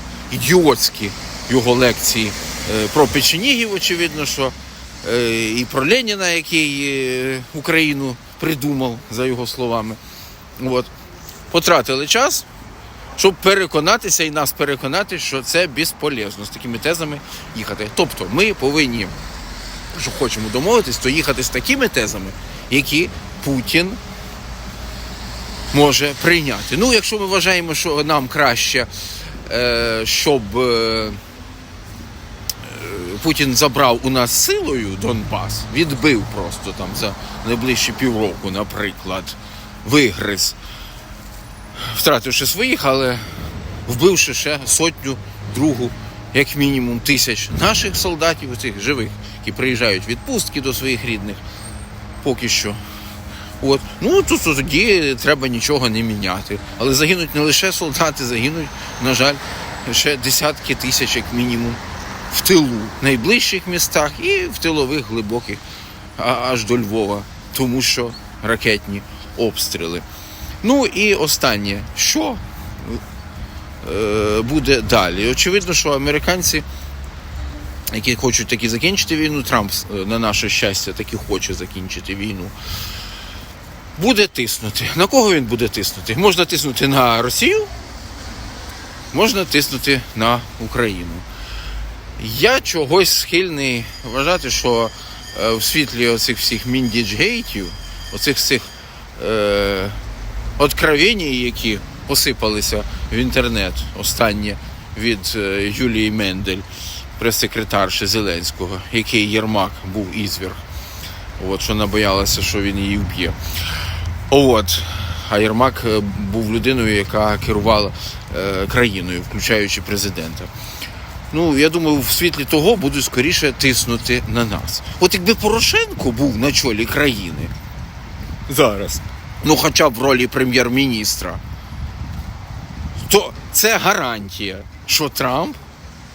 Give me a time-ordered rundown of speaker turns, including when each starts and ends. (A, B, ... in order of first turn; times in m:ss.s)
0:00.3-0:10.0 A
0:10.6-0:10.9 A
0:11.5-0:12.5 A
0:13.2-0:19.1 A
0:19.9-0:24.0 A
0:25.7-0:31.2 A
0:32.6-0:40.6 A
0:41.8-0:43.2 A
0:43.9-0:51.4 A
0:52.2-0:52.8 A
0:53.6-1:05.6 A
1:06.2-1:10.0 A
1:10.6-1:13.0 A
1:13.8-1:16.6 A
1:17.9-1:22.6 A
1:24.0-1:27.7 A
1:29.1-1:31.3 A
1:32.2-1:40.0 A
1:40.6-1:46.7 A
1:47.2-1:50.6 A
1:51.4-1:53.4 A
1:54.3-2:00.5 A
2:01.3-2:07.5 A
2:08.5-2:11.4 A
2:13.1-2:15.6 A